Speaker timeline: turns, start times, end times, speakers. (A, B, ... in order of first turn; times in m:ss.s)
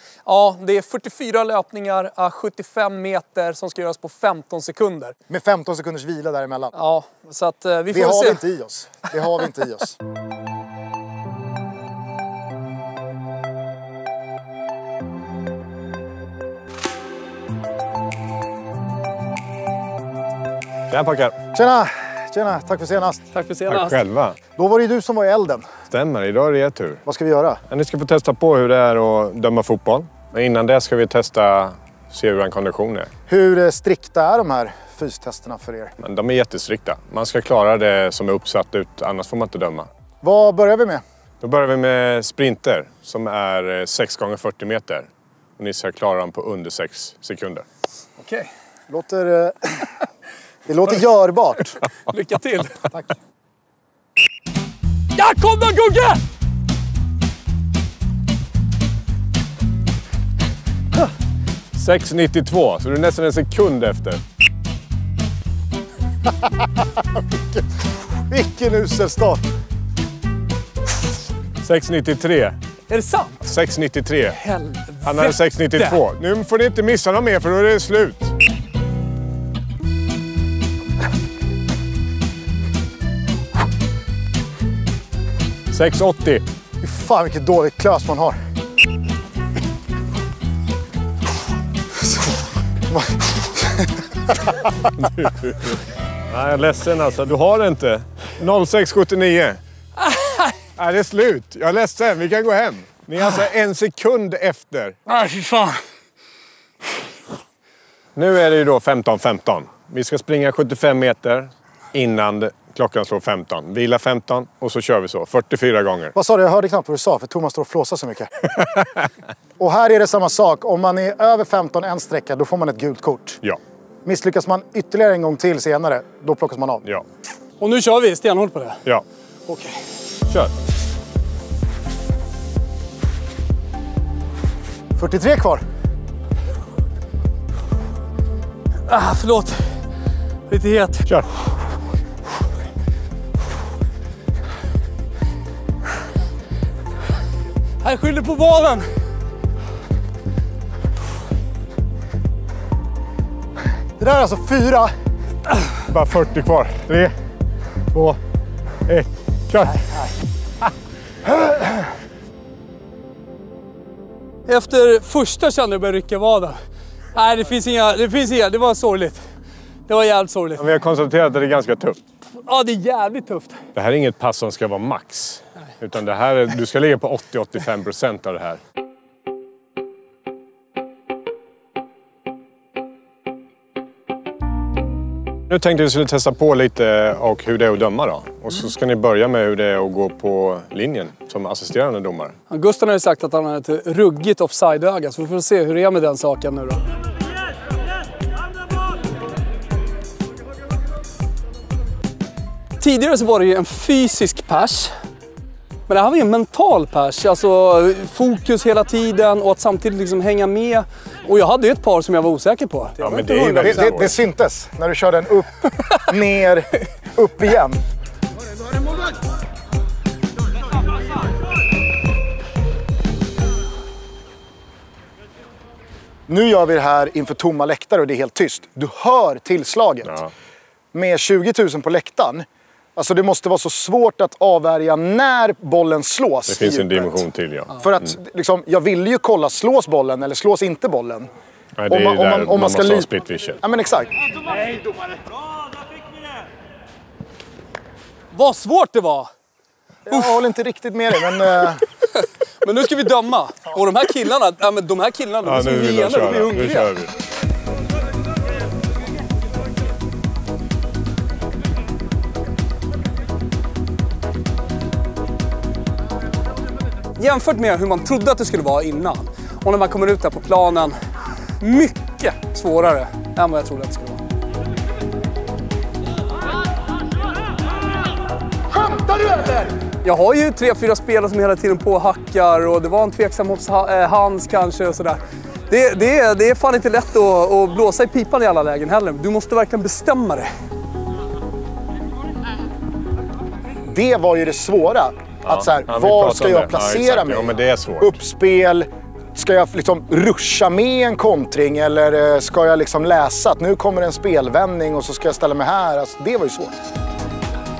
0:00.2-0:05.1 A
0:05.3-0:06.7 B
0:06.7-0:08.4 A
0:07.9-0:10.0 B
0:20.9-0:21.4 C
0:21.5-0:23.2 B
0:23.3-0:24.0 A
0:23.7-0:24.4 C
0:24.6-0:25.6 B
0:25.9-0:27.0 C
0:27.0-0:27.6 B
0:27.7-0:33.1 C
0:33.3-0:35.9 B
0:36.0-0:39.9 C
0:40.2-0:41.0 B
0:41.4-0:47.6 C
0:48.2-0:48.5 A
0:48.9-0:49.9 B
0:50.7-0:51.8 B
0:52.1-0:52.9 A
0:55.1-0:56.2 A
1:01.7-1:04.2 C
1:07.0-1:07.6 B
1:08.3-1:09.4 B
1:11.6-1:12.6 C
1:12.9-1:13.5 A
1:13.5-1:14.4 C
1:14.3-1:16.0 A
1:15.0-1:18.3 C
1:25.7-1:26.4 C
1:26.8-1:28.4 B
1:32.9-1:34.7 B
1:35.0-1:35.8 C
1:36.3-1:39.6 C
1:40.8-1:45.0 C
1:45.1-1:45.8 A
1:48.1-1:56.1 C
1:56.1-1:58.3 B
1:59.6-2:03.4 B
2:04.0-2:06.8 B
2:07.6-2:08.8 A
2:15.0-2:15.6 B
2:18.9-2:19.7 A
2:20.5-2:21.0 A
2:27.8-2:28.9 A
2:34.0-2:34.9 B
2:35.9-2:37.1 C
2:37.9-2:38.2 C
2:38.9-2:40.1 C
2:44.5-2:46.6 A
2:47.1-2:49.2 A
2:49.9-2:50.6 A
2:50.6-2:52.0 C
2:52.4-2:53.6 A
2:53.7-2:58.6 C
3:05.5-3:12.3 C
3:12.5-3:16.8 A
3:22.8-3:24.9 A
3:25.9-3:33.9 A
3:33.0-3:34.1 C
3:33.6-3:37.8 B
3:46.3-3:50.2 B
3:50.9-3:57.2 B
3:56.5-3:57.8 C
3:57.8-4:01.3 B
4:01.8-4:03.6 C
4:01.9-4:03.1 B
4:03.6-4:04.1 B
4:08.3-4:09.3 A
4:10.0-4:11.8 B
4:10.1-4:10.4 A
4:12.2-4:16.9 A
4:15.4-4:17.1 C
4:27.2-4:31.0 A
4:31.6-4:34.2 A
4:39.3-4:50.5 A
4:53.8-5:06.7 B
4:55.4-4:58.1 C